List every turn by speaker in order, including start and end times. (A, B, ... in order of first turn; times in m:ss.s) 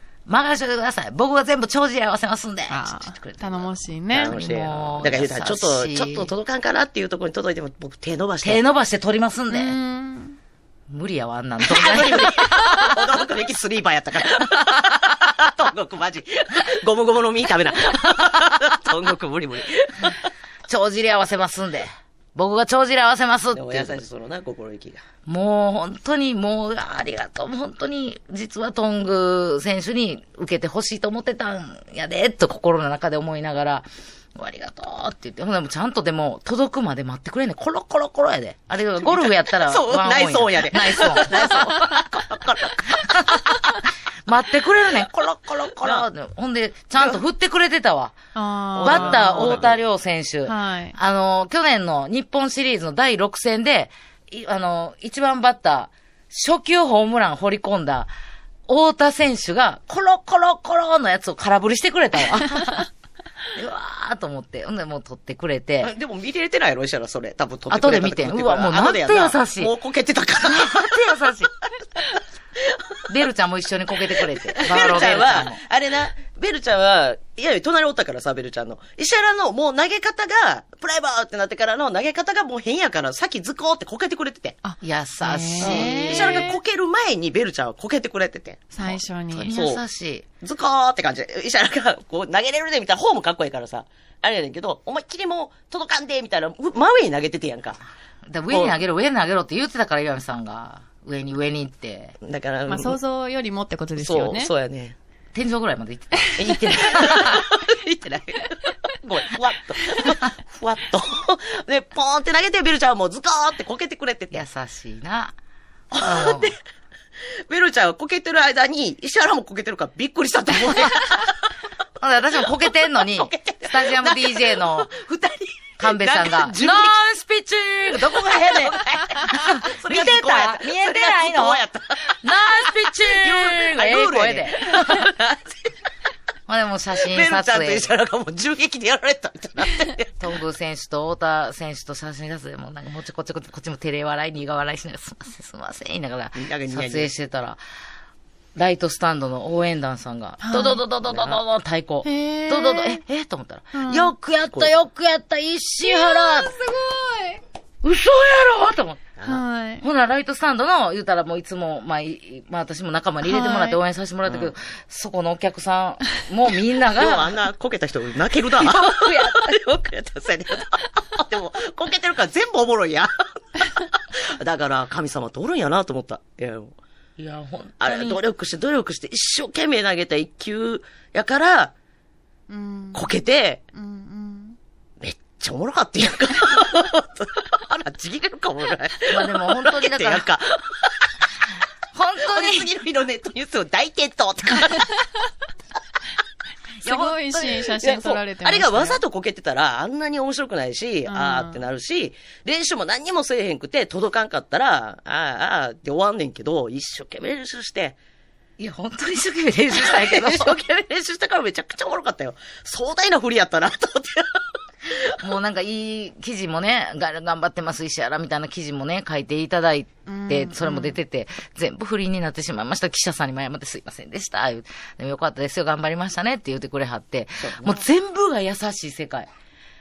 0:00.3-0:06.3 A
0:02.7-0:04.3 B
0:04.1-0:08.6 C
0:08.4-0:09.8 A
0:09.5-0:10.4 B
0:10.9-0:13.0 A
0:11.6-0:20.2 C
0:20.7-0:24.0 A
0:23.5-0:25.0 C
0:25.3-0:41.8 A
0:39.0-0:43.4 C
0:42.9-0:43.6 A
0:44.3-0:48.2 A
0:45.8-0:46.1 C
0:48.4-0:49.7 B
0:48.8-0:49.8 C
0:48.8-0:58.1 A
0:50.5-0:51.0 B
0:58.7-1:02.9 A
1:02.4-1:02.7 B
1:03.6-1:05.9 A
1:05.8-1:11.3 C
1:07.7-1:09.7 A
1:10.4-1:11.5 A
1:12.6-1:13.0 C
1:13.1-1:15.6 A
1:14.4-1:24.6 C
1:24.6-1:26.6 B
1:24.8-1:26.4 A
1:25.6-1:28.6 C
1:28.7-1:29.5 B
1:28.8-1:30.2 A
1:29.5-1:29.8 C
1:30.4-1:37.8 C
1:38.3-1:42.2 A
1:38.5-1:38.8 C
1:42.2-1:43.0 C
1:42.7-1:44.5 B
1:44.0-1:45.0 C
1:45.3-1:47.5 A
1:46.4-1:54.4 C
1:54.3-1:55.4 A
1:55.9-1:56.5 A
1:55.9-1:56.6 C
1:57.3-2:01.3 C
2:02.0-2:05.0 A
2:03.2-2:07.0 C
2:05.8-2:11.6 A
2:08.0-2:12.2 C
2:12.2-2:15.1 A
2:13.0-2:15.7 C
2:16.5-2:17.9 A
2:17.1-2:20.2 C
2:20.2-2:27.6 A
2:26.4-2:27.1 C
2:28.6-2:36.6 A
2:30.4-2:30.8 B
2:31.1-2:31.4 C
2:32.0-2:33.0 B
2:33.7-2:34.1 B
2:35.8-2:37.4 B
2:37.8-2:39.2 A
2:39.3-2:39.8 B
2:39.8-2:47.4 A
2:43.2-2:43.8 B
2:44.3-2:44.5 C
2:47.0-2:53.1 C
2:48.6-2:49.6 A
2:53.7-2:56.8 C
2:57.2-2:58.2 A
2:57.8-3:01.7 C
3:02.5-3:03.1 B
3:02.9-3:03.6 C
3:03.7-3:04.6 B
3:05.0-3:11.1 C
3:09.1-3:10.3 A
3:11.9-3:12.7 A
3:12.2-3:14.9 C
3:16.8-3:19.0 B
3:16.8-3:17.2 A
3:17.3-3:28.0 C
3:21.1-3:21.6 B
3:28.6-3:30.6 A
3:29.8-3:34.4 C
3:35.2-3:49.3 A
3:40.1-3:41.0 B
3:47.4-3:47.8 C